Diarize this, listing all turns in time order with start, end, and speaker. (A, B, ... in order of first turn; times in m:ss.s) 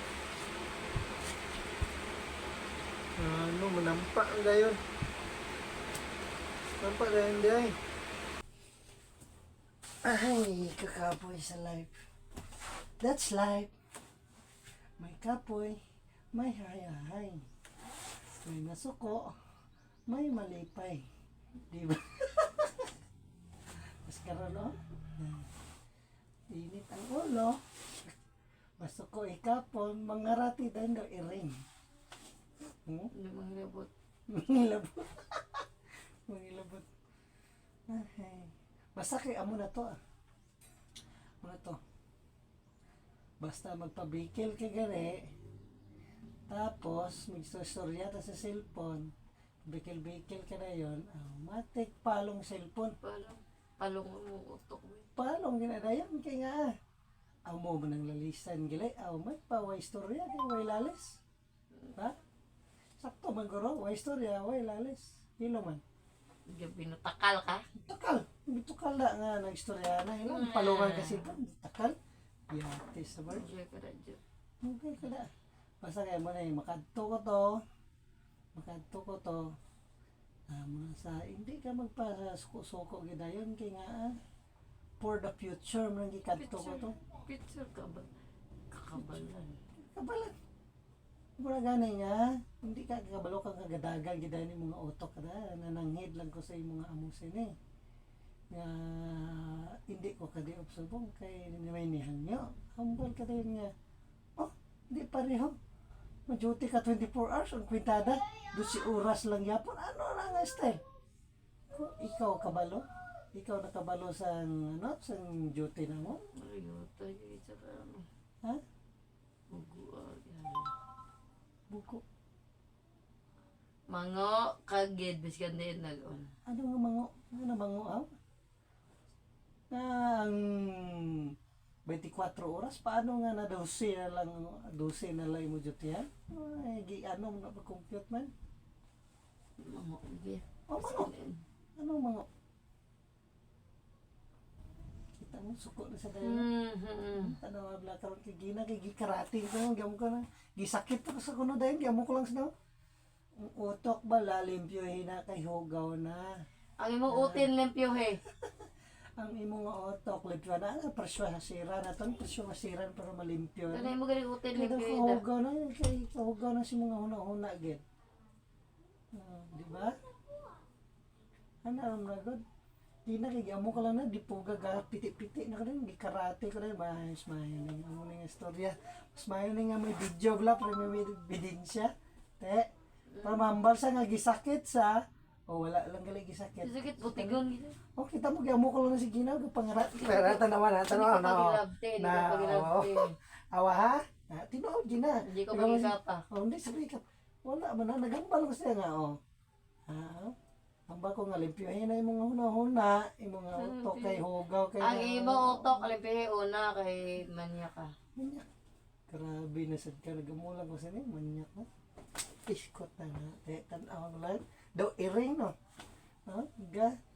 0:03.2-0:04.8 A
0:06.8-0:07.8 A
0:10.0-0:12.0 A
0:13.0-0:13.7 A
0:15.0-0:15.8 A
0:16.3-0:17.4 A
0:18.4-0:19.3 A
0:20.1-0:21.0 A
0:21.7-0:22.9 A
0:24.1-0:25.5 A
0:26.5-0:28.2 A
0:28.8-0:31.6 A
0:33.1-0:33.9 B
0:34.3-0:35.6 A
0:36.3-0:36.8 A
0:37.9-0:40.0 A
0:41.4-0:41.8 A
0:43.4-0:45.3 A
0:46.5-0:49.1 A
0:49.7-0:53.0 A
0:53.0-0:55.1 B
0:55.2-0:56.7 A
0:57.5-1:01.2 A
1:03.0-1:05.8 A
1:06.5-1:07.6 B
1:07.8-1:12.0 A
1:10.3-1:11.3 B
1:12.5-1:13.5 A
1:13.3-1:14.2 B
1:14.6-1:15.3 A
1:15.8-1:17.6 A
1:18.6-1:19.4 A
1:20.5-1:24.2 A
1:25.0-1:27.0 A
1:26.3-1:28.1 B
1:28.7-1:29.6 B
1:29.0-1:30.3 A
1:31.4-1:37.5 A
1:38.5-1:43.7 A
1:44.4-1:45.6 A
1:46.3-1:50.8 A
1:51.7-1:56.2 A
1:56.4-1:58.0 B
1:59.5-2:00.7 B
2:01.7-2:02.0 A
2:03.9-2:06.3 B
2:06.5-2:08.1 A
2:09.7-2:11.3 A
2:11.9-2:18.3 A
2:19.7-2:21.4 B
2:20.7-2:21.1 A
2:21.8-2:22.3 A
2:25.2-2:26.5 A
2:26.2-2:27.4 B
2:27.1-2:32.5 A
2:33.4-2:36.3 A
2:36.8-2:38.2 B
2:37.1-2:37.5 A
2:39.2-2:43.9 A
2:43.7-2:45.2 B
2:44.5-2:47.8 A
2:49.1-2:49.9 A
2:51.6-2:52.4 A
2:53.1-3:02.7 A
3:03.2-3:03.5 B
3:03.2-3:05.0 A
3:05.5-3:07.4 A
3:06.6-3:07.8 B
3:08.0-3:19.2 A
3:09.7-3:13.1 B
3:15.3-3:16.2 B
3:19.9-3:20.3 A
3:20.9-3:25.9 A
3:23.6-3:24.2 B
3:24.8-3:27.9 B
3:28.2-3:28.4 A
3:29.1-3:31.7 A
3:32.5-3:35.5 A
3:36.3-3:36.9 A